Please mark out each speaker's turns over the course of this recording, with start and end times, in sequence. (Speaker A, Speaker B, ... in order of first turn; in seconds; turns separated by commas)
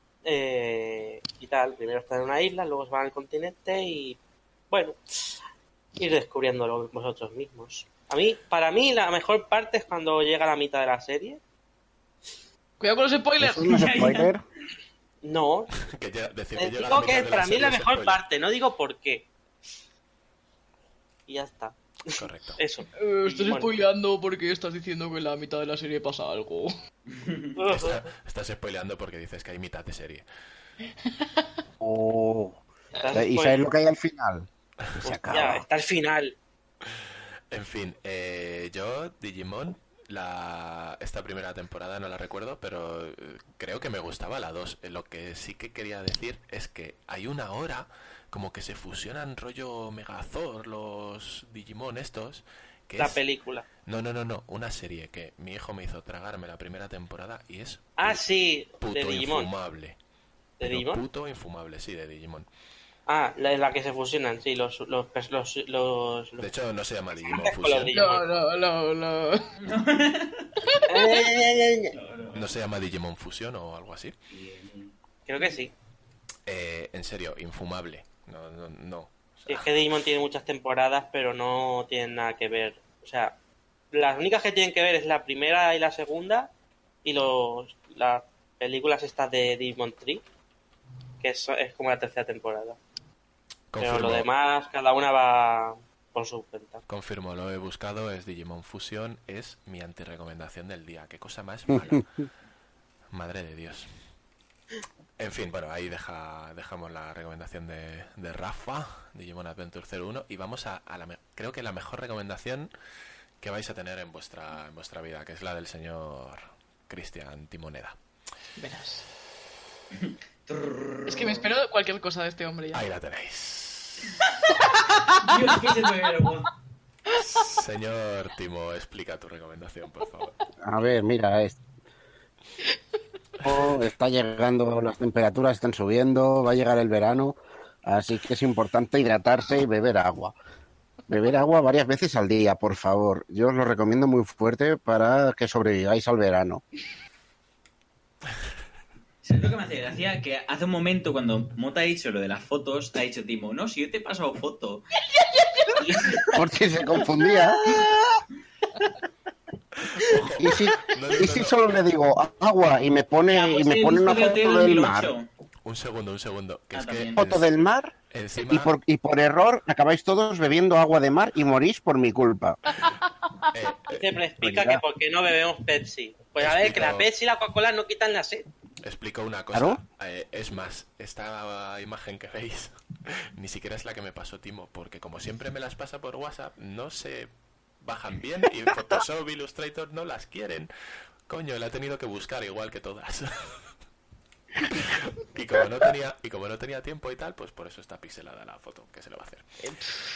Speaker A: 0.2-4.2, Speaker A: 4.7-5.0, Speaker A: 6.0-11.4, Speaker B: 12.8-14.2, Speaker C: 13.4-14.4, Speaker A: 15.2-15.7, Speaker D: 15.9-18.2, Speaker A: 16.6-19.3, Speaker A: 21.3-23.7, Speaker D: 22.1-22.6, Speaker B: 23.0-26.7, Speaker E: 27.1-27.6, Speaker A: 27.6-28.0, Speaker D: 27.7-30.3, Speaker C: 31.8-32.6, Speaker A: 33.0-33.6, Speaker C: 33.1-34.5, Speaker C: 35.0-35.6, Speaker A: 35.0-36.3, Speaker D: 37.5-53.2, Speaker A: 53.0-53.7, Speaker D: 53.9-58.2, Speaker A: 58.0-59.5, Speaker D: 58.8-60.0, Speaker A: 60.6-61.0, Speaker D: 60.6-62.5, Speaker A: 63.1-66.5, Speaker D: 66.4-68.0, Speaker A: 67.2-68.2, Speaker B: 67.9-69.5, Speaker E: 69.6-70.5, Speaker A: 70.9-71.9, Speaker E: 71.9-72.6, Speaker D: 72.3-74.1, Speaker E: 74.3-74.9, Speaker A: 75.3-75.7, Speaker D: 76.5-79.7, Speaker A: 79.5-83.4, Speaker A: 83.9-86.5, Speaker A: 87.0-90.2, Speaker A: 91.2-92.8, Speaker D: 93.7-94.3, Speaker A: 93.8-96.8, Speaker D: 96.9-102.0, Speaker C: 101.7-102.0, Speaker D: 103.1-103.9, Speaker D: 105.2-112.7, Speaker D: 113.4-118.0, Speaker B: 118.6-119.0, Speaker E: 120.0-121.4, Speaker B: 121.1-122.8, Speaker D: 122.7-124.1, Speaker E: 125.2-126.5, Speaker D: 127.1-130.4, Speaker C: 130.6-131.6, Speaker C: 133.4-140.3, Speaker C: 141.1-146.6, Speaker E: 149.2-154.9, Speaker B: 155.0-155.8, Speaker E: 155.8-156.3, Speaker C: 156.3-157.6, Speaker D: 159.8-161.6, Speaker C: 160.4-165.1, Speaker E: 163.3-165.3, Speaker D: 165.6-167.5, Speaker E: 166.7-167.3, Speaker C: 167.2-172.6, Speaker D: 168.1-168.7, Speaker D: 173.5-174.1, Speaker A: 173.9-178.5, Speaker C: 174.4-174.8, Speaker D: 176.4-177.1, Speaker D: 178.8-182.7, Speaker C: 179.5-179.8, Speaker D: 183.3-190.7, Speaker D: 191.3-193.7, Speaker D: 194.6-199.4, Speaker B: 199.6-199.9